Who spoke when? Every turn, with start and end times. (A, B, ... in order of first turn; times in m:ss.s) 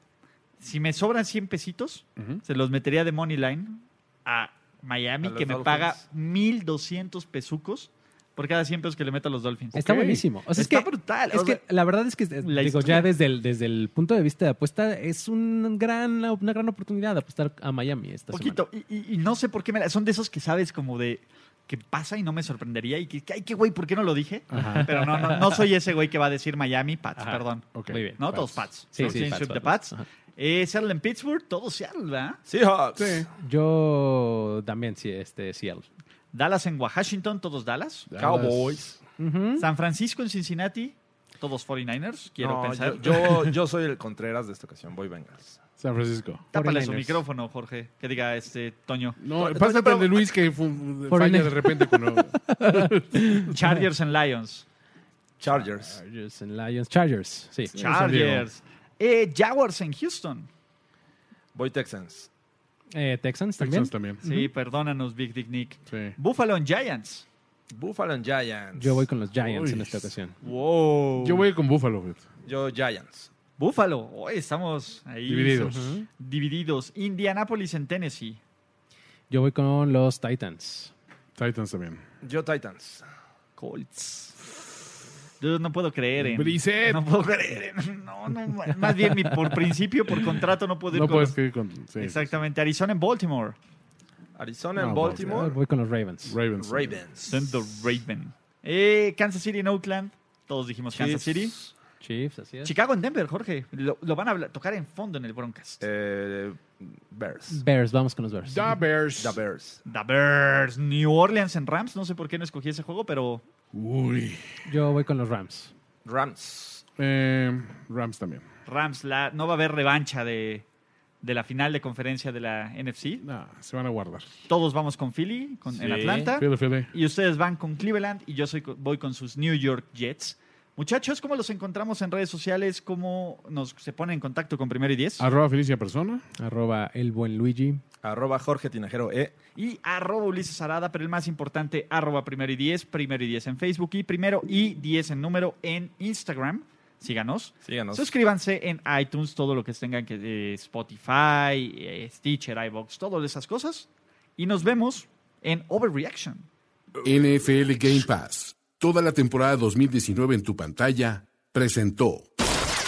0:00.6-0:10.0 A
0:05.2-0:06.0 B
0:09.7-0:18.6 C
0:09.8-0:10.2 D
0:10.5-0:11.6 A
0:12.4-0:13.1 A
0:18.3-0:32.4 A
0:24.5-0:24.8 D
0:24.5-0:25.6 C
0:27.2-0:28.2 C
0:27.7-0:29.2 D
0:28.9-0:30.0 C
0:32.4-0:33.3 B
0:33.0-0:33.3 D
0:33.4-0:35.8 C
0:36.3-0:38.1 A
0:38.1-0:38.8 D
0:38.2-0:39.0 B
0:39.2-0:39.7 C
0:39.6-0:43.5 A
0:42.4-0:45.6 B
0:45.8-0:46.4 D
0:46.5-0:50.2 A
0:46.5-0:47.2 C
0:49.2-0:53.0 D
0:51.1-0:53.5 C
0:53.5-0:54.6 A
0:55.4-0:56.0 B
0:55.5-0:57.7 C
0:57.7-0:58.5 D
0:57.8-1:00.5 A
1:01.5-1:02.3 B
1:02.9-1:04.4 C
1:03.6-1:04.2 D
1:04.2-1:07.2 A
1:05.9-1:06.1 D
1:07.7-1:09.1 B
1:08.8-1:10.3 C
1:09.4-1:10.0 D
1:10.4-1:11.4 A
1:11.2-1:12.2 D
1:12.4-1:13.3 B
1:13.6-1:18.4 A
1:15.3-1:15.9 D
1:15.6-1:16.1 C
1:19.3-1:20.9 C
1:21.4-1:22.0 D
1:22.2-1:23.0 B
1:23.6-1:24.3 A
1:25.4-1:31.4 A
1:26.2-1:27.0 D
1:30.9-1:32.2 D
1:32.0-1:33.6 A
1:34.4-1:35.5 B
1:34.8-1:35.5 D
1:35.0-1:36.4 C
1:36.3-1:37.0 D
1:36.6-1:37.4 B
1:37.2-1:41.5 A
1:40.9-1:41.7 B
1:42.0-1:42.7 C
1:42.6-1:45.8 A
1:45.8-1:47.6 B
1:47.5-1:48.7 C
1:48.5-1:49.4 D
1:49.2-1:49.8 B
1:49.8-1:53.4 A
1:53.7-1:54.6 D
1:54.6-1:55.7 C
1:56.0-1:56.8 B
1:57.0-1:58.4 D
1:58.6-2:00.6 A
2:01.2-2:03.2 A
2:03.2-2:04.3 D
2:04.5-2:15.3 A
2:05.7-2:06.1 B
2:06.3-2:06.9 D
2:15.2-2:16.2 D
2:16.4-2:17.8 C
2:18.0-2:19.3 B
2:19.6-2:36.5 A
2:27.6-2:28.1 B
2:37.0-2:42.3 E